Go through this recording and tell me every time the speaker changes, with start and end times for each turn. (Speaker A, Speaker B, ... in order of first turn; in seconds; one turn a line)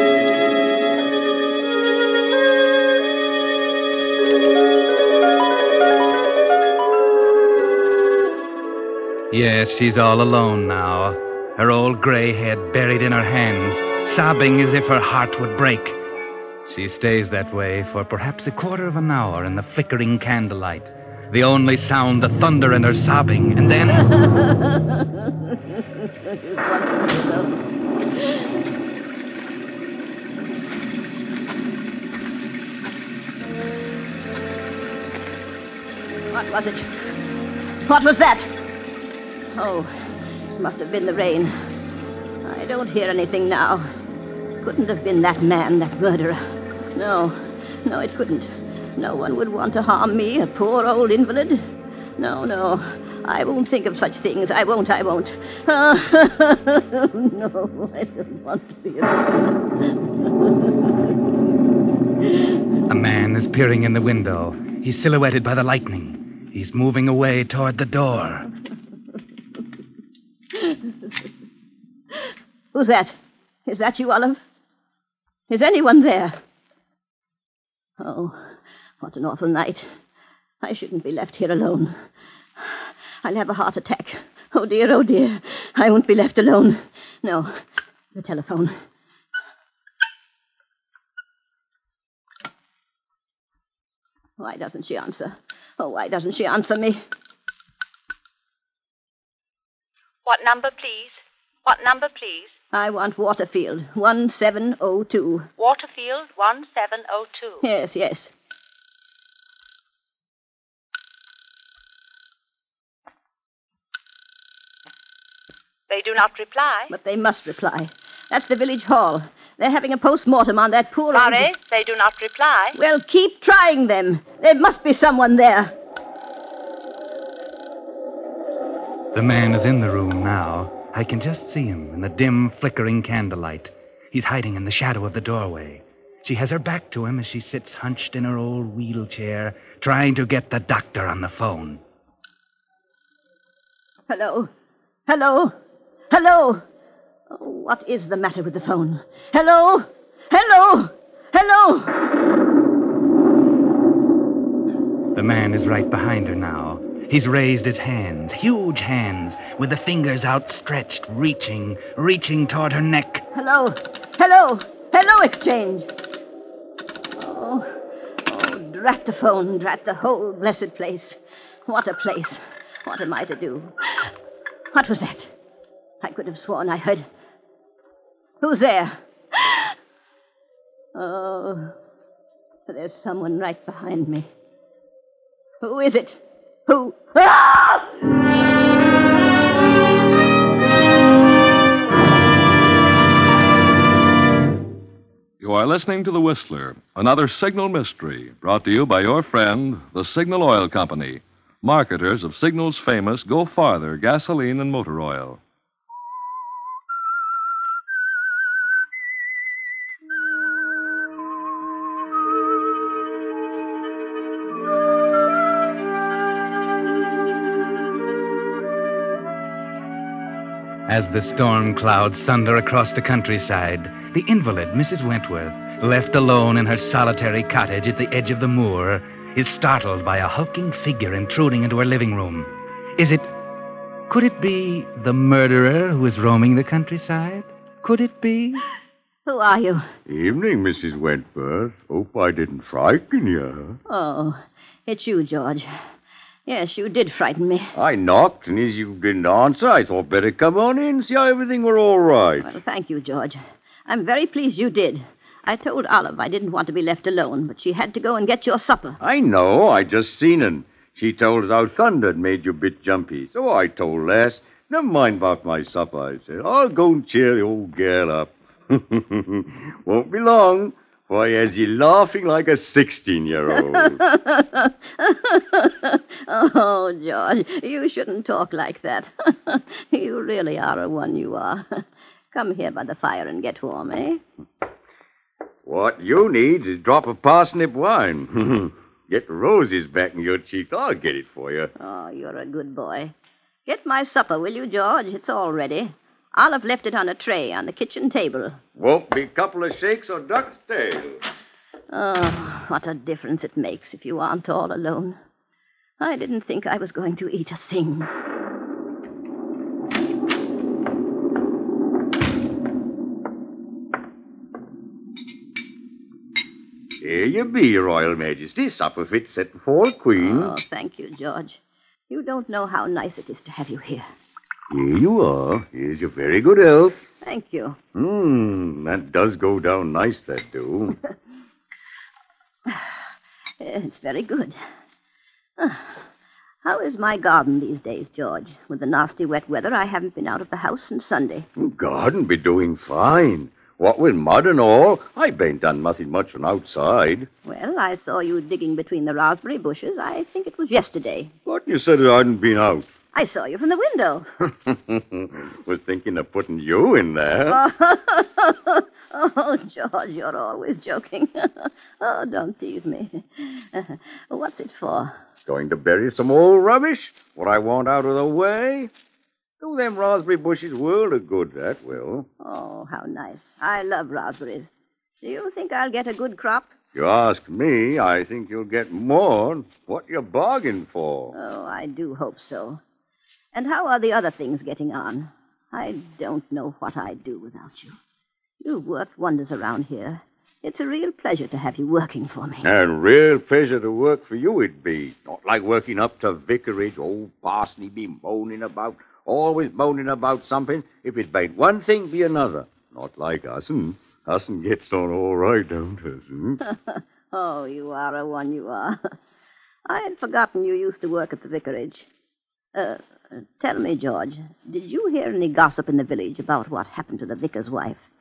Speaker A: 9.3-16.0
Speaker A: 16.6-24.2
Speaker B: 24.2-27.6
Speaker B: 36.3-36.9
Speaker B: 37.9-38.5
Speaker B: 39.5-39.9
Speaker B: 40.6-41.5
Speaker B: 42.4-43.9
Speaker B: 44.6-59.4
Speaker A: 62.9-68.5
Speaker B: 72.7-74.4
Speaker B: 75.5-76.4
Speaker B: 78.0-78.4
Speaker B: 79.0-79.9
Speaker B: 80.6-82.0
Speaker B: 82.6-87.5
Speaker B: 88.1-88.7
Speaker B: 94.4-97.0
Speaker C: 100.2-102.6
Speaker B: 102.7-105.5
Speaker C: 105.6-107.6
Speaker B: 107.6-108.3
Speaker C: 115.9-116.9
Speaker B: 116.9-121.5
Speaker C: 121.1-122.8
Speaker B: 122.8-125.7
Speaker A: 129.1-141.8
Speaker B: 144.1-144.5
Speaker B: 145.1-145.5
Speaker B: 146.1-146.6
Speaker B: 147.3-151.9
Speaker A: 155.1-163.2
Speaker B: 163.3-165.9
Speaker B: 167.2-167.7
Speaker B: 168.3-174.1
Speaker B: 174.7-175.3
Speaker B: 176.0-177.1
Speaker B: 178.4-179.7
Speaker B: 180.9-181.7
Speaker B: 182.7-184.3
Speaker B: 185.6-188.0
Speaker D: 195.4-205.4
Speaker A: 220.9-233.3
Speaker A: 234.1-238.6
Speaker B: 239.2-239.9
Speaker E: 240.1-243.8
Speaker B: 243.9-245.7
Speaker B: 246.5-247.7
Speaker E: 247.7-252.5
Speaker B: 252.4-259.0
Speaker E: 259.0-274.0
Speaker B: 273.6-284.2
Speaker E: 285.6-291.7
Speaker B: 291.8-293.1
Speaker B: 293.7-298.6
Speaker E: 298.8-301.2
Speaker B: 301.9-305.2
Speaker B: 306.0-308.1
Speaker E: 317.0-320.5
Speaker B: 320.2-324.1
Speaker E: 324.7-327.0
Speaker B: 327.2-327.8
Speaker E: 327.9-330.9
Speaker B: 333.6-334.6
Speaker B: 335.6-335.9
Speaker B: 336.6-341.5
Speaker E: 341.6-347.3
Speaker B: 347.4-351.3
Speaker E: 351.4-352.9
Speaker B: 353.1-354.3
Speaker E: 354.6-357.6
Speaker B: 357.5-365.1
Speaker E: 365.4-368.9
Speaker E: 369.6-372.3
Speaker B: 372.4-374.7
Speaker B: 375.2-376.7
Speaker E: 376.9-381.3
Speaker B: 381.3-382.8
Speaker B: 383.5-387.9
Speaker B: 388.6-392.7
Speaker E: 392.6-406.6
Speaker B: 406.6-409.0
Speaker B: 409.9-412.1
Speaker B: 412.7-418.0